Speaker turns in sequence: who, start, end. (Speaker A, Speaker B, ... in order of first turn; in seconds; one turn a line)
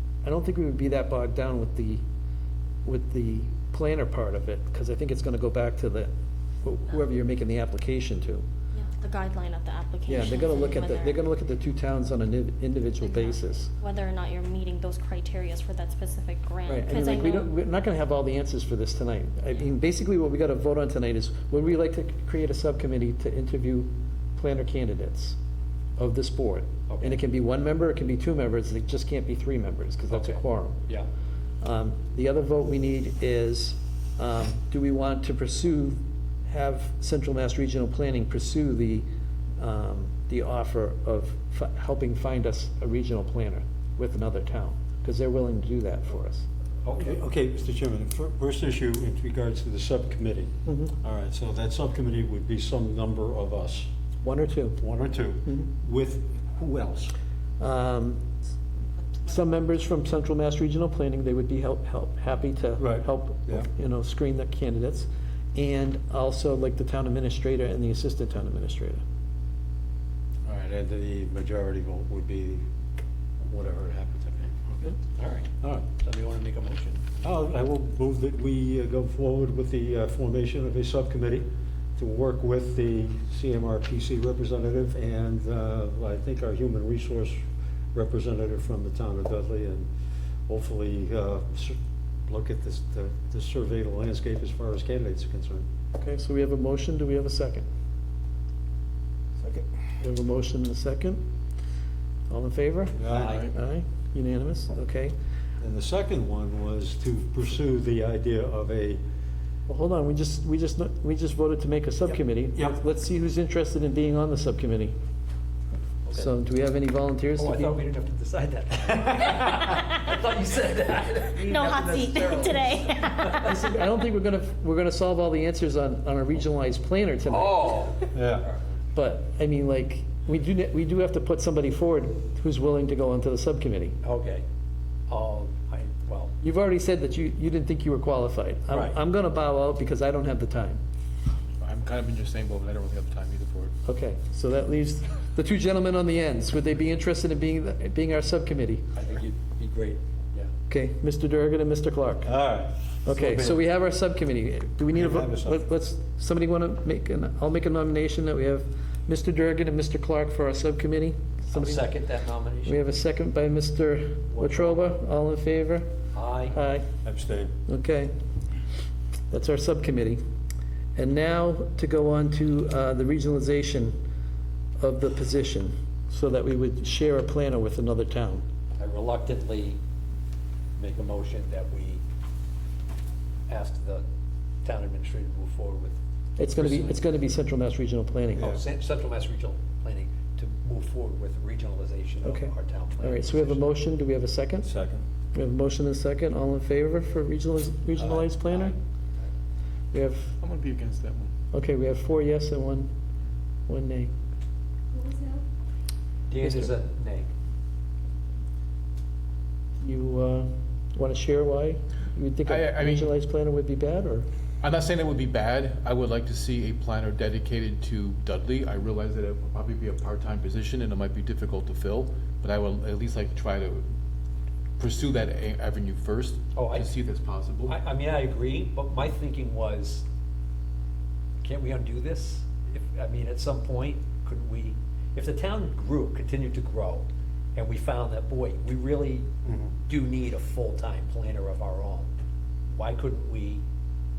Speaker A: 0.2-2.0
Speaker A: 2.9-8.4
Speaker B: 8.7-11.3
Speaker A: 10.1-13.7
Speaker B: 13.0-17.5
Speaker A: 16.7-25.4
Speaker A: 26.0-30.8
Speaker C: 26.9-27.2
Speaker C: 30.1-31.1
Speaker A: 31.6-39.1
Speaker A: 39.6-46.5
Speaker C: 46.8-47.2
Speaker D: 47.0-53.9
Speaker A: 50.7-50.9
Speaker A: 54.2-54.8
Speaker D: 54.8-57.1
Speaker A: 57.6-58.2
Speaker A: 59.2-69.0
Speaker D: 62.8-63.7
Speaker D: 70.5-72.6
Speaker D: 73.4-74.9
Speaker C: 75.0-77.2
Speaker D: 77.2-87.4
Speaker D: 87.9-89.9
Speaker D: 90.5-95.7
Speaker A: 96.0-97.7
Speaker D: 99.4-99.7
Speaker A: 100.0-101.2
Speaker A: 102.3-105.1
Speaker D: 103.0-103.4
Speaker C: 103.1-103.5
Speaker E: 103.2-103.5
Speaker D: 105.6-109.0
Speaker A: 109.7-115.0
Speaker C: 116.0-116.3
Speaker A: 116.2-117.8
Speaker C: 117.4-123.6
Speaker B: 121.5-123.3
Speaker A: 123.3-127.8
Speaker C: 127.3-128.6
Speaker D: 128.1-128.5
Speaker A: 128.9-134.0
Speaker C: 134.0-134.4
Speaker C: 135.1-136.3
Speaker A: 136.4-140.8
Speaker C: 138.7-139.0
Speaker E: 141.6-143.7
Speaker A: 143.9-148.9
Speaker C: 148.9-150.5
Speaker A: 150.7-152.3
Speaker D: 152.2-153.6
Speaker A: 153.1-161.9
Speaker D: 154.9-155.6
Speaker C: 161.5-162.8
Speaker A: 162.7-165.9
Speaker C: 164.3-164.8
Speaker C: 166.1-166.6
Speaker A: 166.5-166.9
Speaker D: 167.0-167.5
Speaker A: 167.7-168.1
Speaker A: 169.3-170.2
Speaker A: 171.0-174.0
Speaker A: 174.8-178.4
Speaker C: 178.8-179.8
Speaker C: 180.8-182.0
Speaker C: 183.5-184.1
Speaker C: 184.6-187.0
Speaker A: 186.4-188.5
Speaker C: 188.3-193.7
Speaker D: 188.4-188.6
Speaker A: 192.2-194.7
Speaker D: 194.6-195.1
Speaker A: 195.3-198.8
Speaker C: 198.0-199.2
Speaker A: 199.9-200.3
Speaker E: 200.4-201.3
Speaker A: 201.5-202.9
Speaker A: 203.7-204.1
Speaker C: 206.3-207.3
Speaker A: 206.4-206.7
Speaker A: 209.8-214.3
Speaker E: 212.5-213.1
Speaker E: 214.6-223.8
Speaker E: 224.8-227.7
Speaker C: 226.5-226.9
Speaker C: 227.7-230.1
Speaker C: 231.4-239.3
Speaker D: 239.4-239.7
Speaker C: 239.9-242.1
Speaker C: 242.7-243.6